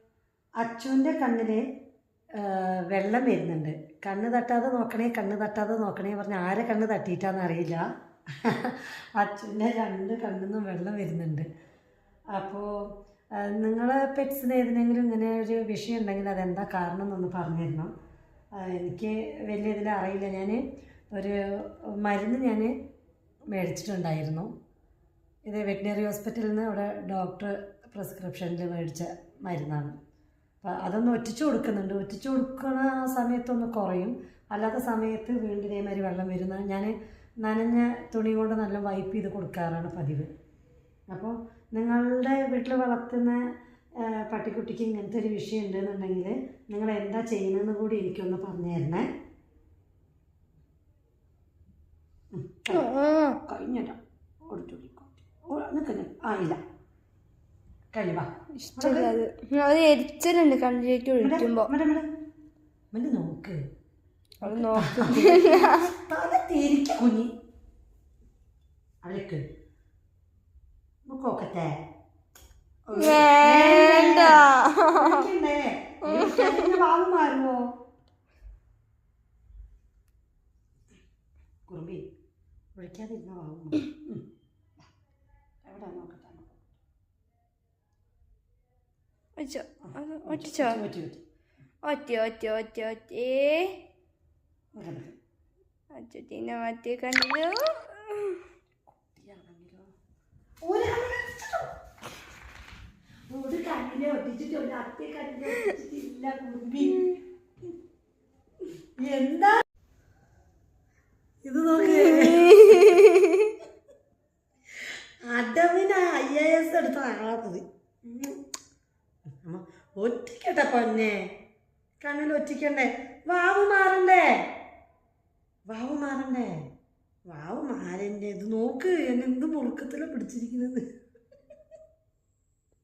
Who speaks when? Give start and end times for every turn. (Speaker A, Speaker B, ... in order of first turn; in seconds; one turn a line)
Speaker A: 0.6-1.6
Speaker A: 2.4-7.8
Speaker A: 8.4-11.4
Speaker A: 12.3-12.7
Speaker A: 13.4-17.9
Speaker A: 18.6-22.7
Speaker A: 23.5-24.5
Speaker A: 25.5-29.9
Speaker A: 30.6-40.3
Speaker A: 41.1-43.4
Speaker A: 44.0-49.0
Speaker A: 52.3-52.9
Speaker B: 52.7-53.4
Speaker A: 53.5-54.0
Speaker A: 54.5-56.6
Speaker A: 57.9-59.1
Speaker B: 58.6-61.7
Speaker A: 61.2-62.0
Speaker A: 62.9-63.6
Speaker A: 64.4-67.3
Speaker B: 64.4-65.8
Speaker A: 69.0-69.4
Speaker A: 71.1-71.8
Speaker A: 72.9-77.7
Speaker B: 72.9-75.2
Speaker B: 76.0-76.8
Speaker A: 81.7-82.0
Speaker A: 82.8-84.2
Speaker A: 85.6-86.7
Speaker B: 89.4-90.8
Speaker A: 89.8-91.2
Speaker B: 91.8-93.8
Speaker A: 94.8-95.2
Speaker B: 95.9-98.4
Speaker A: 98.9-99.9
Speaker A: 100.6-101.7
Speaker A: 103.3-107.2
Speaker A: 109.0-109.6
Speaker A: 111.4-113.0
Speaker B: 112.0-113.5
Speaker A: 115.3-118.4
Speaker A: 119.4-121.2
Speaker A: 122.0-124.2
Speaker A: 125.7-126.5
Speaker A: 127.3-130.8